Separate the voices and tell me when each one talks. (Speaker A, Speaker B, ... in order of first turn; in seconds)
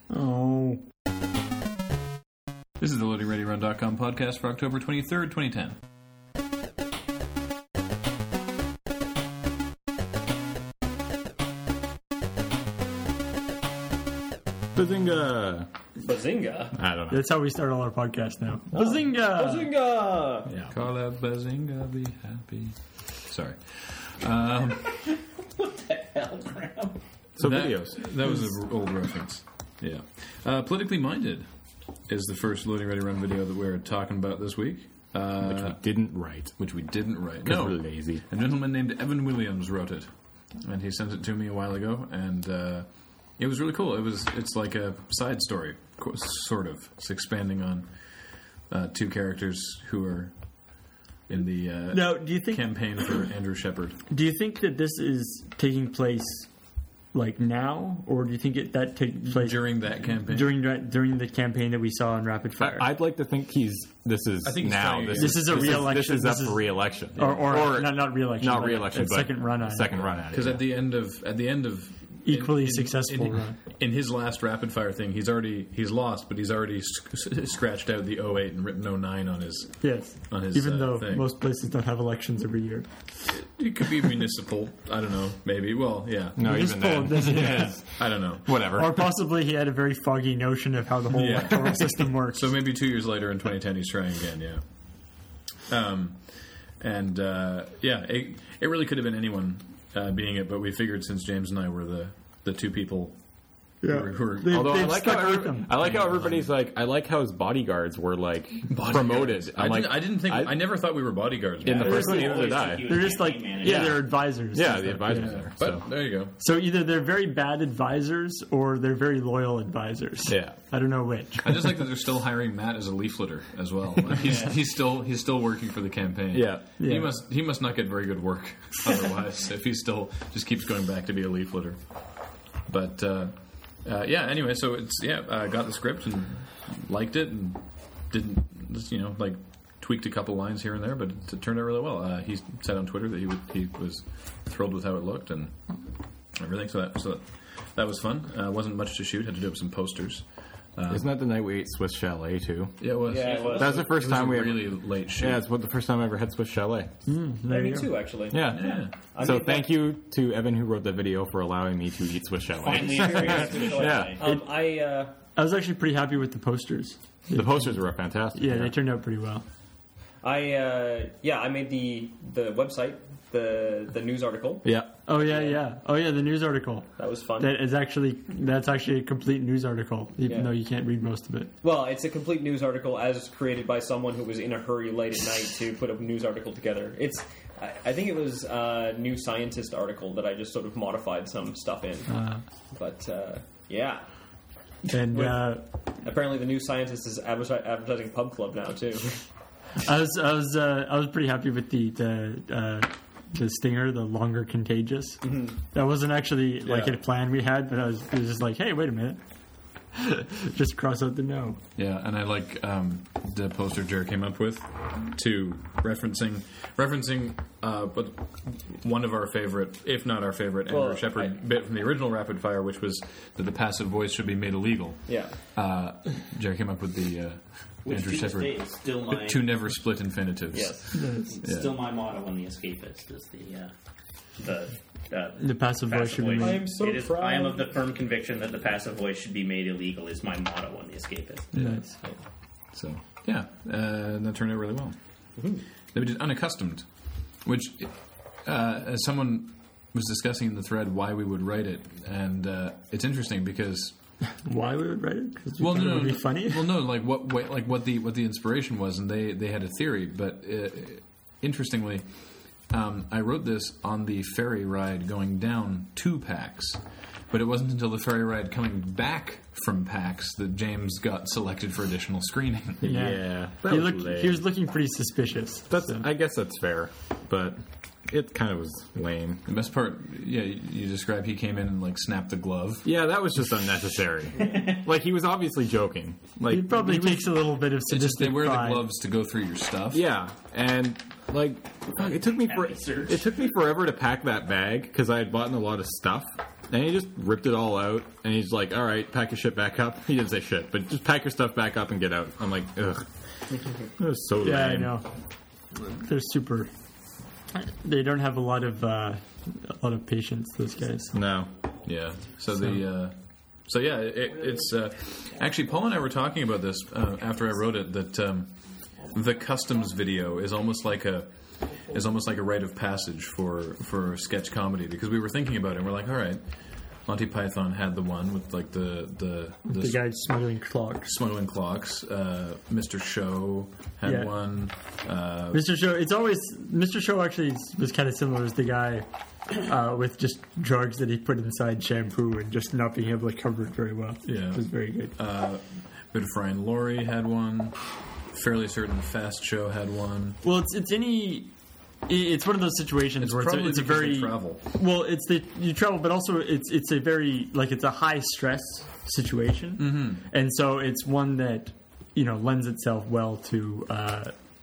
Speaker A: 0.1-0.8, 17.1-19.7, 51.9-53.1, 54.1-56.5, 57.1-62.9, 65.1-70.0, 72.2-73.5, 79.8-82.9, 86.4-88.0, 88.7-92.5, 103.8-105.9, 111.8-115.5, 116.4-121.8, 126.8-127.1, 157.1-157.9, 165.3-169.4, 175.1-181.5, 192.1-192.4, 194.9-195.7, 199.8-209.2, 209.9-211.6, 230.9-231.3, 235.4-236.7, 241.6-241.8, 254.4-256.6, 272.9-276.0, 286.5-288.9, 304.3-305.1, 305.8-306.7, 307.5-311.2, 329.7-331.1, 334.1-334.3, 335.5-339.1, 339.6-345.1, 350.4-351.5, 352.1-364.3
Speaker B: 2.8-5.8, 20.7-25.0, 27.4-31.5, 32.1-35.8, 36.6-47.9, 48.7-54.0, 59.3-60.6, 64.4-66.0, 70.3-81.3, 83.3-86.5, 88.0-88.6, 91.1-94.6, 95.7-103.2, 103.8-105.0, 105.8-106.4, 108.7-112.4, 115.1-116.3, 121.4-145.6, 146.3-151.1, 152.8-155.4, 158.5-158.9, 206.6-207.0, 211.8-230.8, 231.4-231.8, 241.5-241.8, 243.2-244.9, 245.9-246.9, 247.4-253.9, 255.6-272.9, 279.5-282.9, 287.9-290.0, 311.8-321.3, 321.8-326.4, 327.1-330.0, 331.0-335.7, 344.2-350.4, 353.2-354.6, 359.8-360.2
Speaker C: 14.7-15.7, 16.7-17.2, 27.4-28.1, 35.4-36.6, 37.4-38.2, 62.6-70.7, 86.3-89.1, 104.5-110.7, 111.6-113.0, 113.6-115.8, 120.3-120.6, 126.3-126.7, 150.9-156.9, 158.3-164.2, 167.3-168.7, 174.6-174.9, 242.7-243.0, 272.8-274.4, 275.7-279.4, 282.8-287.3, 289.9-305.0, 311.1-311.5
Speaker D: 16.0-16.8, 18.7-20.5, 153.1-153.9, 157.5-159.7, 162.7-165.1, 170.2-174.6, 175.2-175.6, 177.0-177.6, 180.2-180.5, 181.6-194.1, 194.8-199.2, 205.2-205.6, 220.7-221.3, 225.1-225.4, 230.5-231.0, 236.3-237.7, 245.4-245.6
Speaker E: 24.9-27.0, 111.8-114.2, 153.2-153.7, 162.6-164.2, 227.8-229.4, 231.1-233.7, 234.4-242.1, 284.4-284.8, 292.1-293.2